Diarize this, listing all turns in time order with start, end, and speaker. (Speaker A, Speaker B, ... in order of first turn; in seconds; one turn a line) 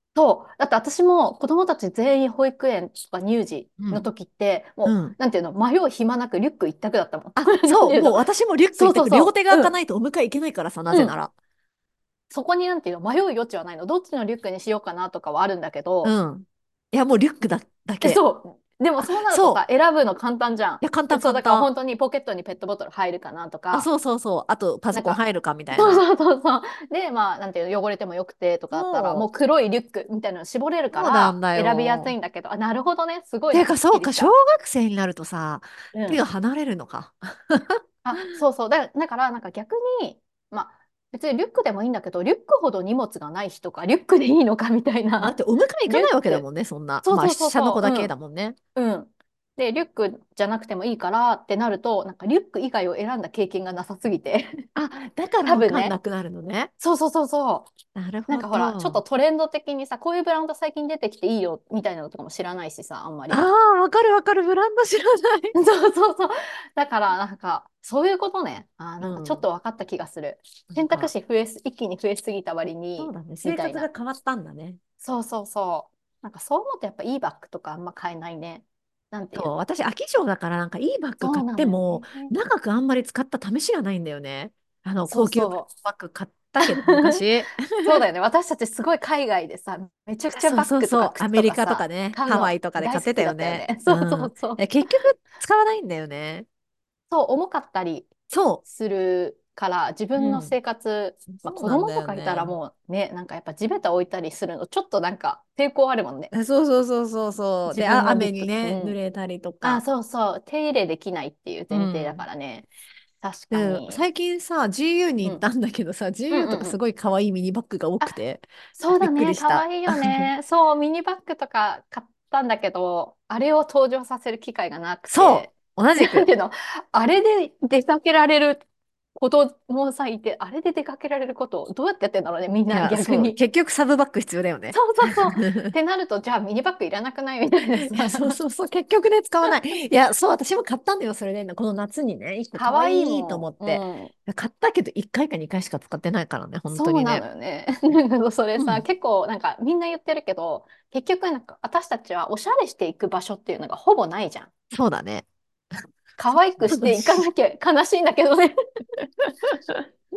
Speaker A: 0.1-9.7
Speaker B: 3.8-4.0
Speaker B: 4.8-5.1
Speaker B: 7.3-11.3
Speaker A: 10.9-11.2
Speaker A: 12.3-16.1
Speaker B: 16.0-18.2
Speaker A: 18.0-23.9
Speaker B: 19.0-19.6
Speaker B: 20.8-21.7
Speaker B: 23.7-26.0
Speaker A: 24.9-25.2
Speaker A: 25.7-34.3
Speaker B: 28.7-29.3
Speaker B: 30.9-32.1
Speaker B: 33.5-38.4
Speaker A: 35.9-36.2
Speaker A: 38.0-45.3
Speaker B: 45.2-48.5
Speaker A: 45.9-46.4
Speaker A: 47.0-48.1
Speaker A: 48.8-54.6
Speaker B: 54.7-56.7
Speaker A: 55.5-56.0
Speaker A: 56.8-57.7
Speaker B: 57.9-59.0
Speaker A: 58.3-63.5
Speaker B: 63.3-65.5
Speaker A: 65.5-73.9
Speaker B: 69.0-69.5
Speaker B: 70.7-71.1
Speaker B: 73.0-74.8
Speaker A: 75.0-79.5
Speaker B: 79.3-88.0
Speaker A: 81.2-82.3
Speaker A: 85.1-85.7
Speaker A: 86.6-87.2
Speaker A: 87.8-94.8
Speaker B: 90.3-96.5
Speaker A: 97.1-98.1
Speaker B: 98.3-98.6
Speaker A: 98.6-106.3
Speaker B: 100.2-100.5
Speaker B: 101.3-102.5
Speaker B: 106.3-109.8
Speaker A: 107.7-109.0
Speaker A: 109.6-112.7
Speaker B: 111.7-112.2
Speaker A: 113.2-114.0
Speaker B: 113.5-120.3
Speaker A: 116.3-116.8
Speaker A: 118.8-128.6
Speaker B: 125.1-126.3
Speaker A: 129.2-133.4
Speaker B: 132.7-135.7
Speaker A: 134.7-138.4
Speaker B: 137.8-147.2
Speaker A: 142.6-144.1
Speaker A: 146.7-154.5
Speaker B: 148.6-148.8
Speaker B: 154.7-155.3
Speaker A: 156.2-158.5
Speaker B: 156.7-157.2
Speaker B: 159.5-159.8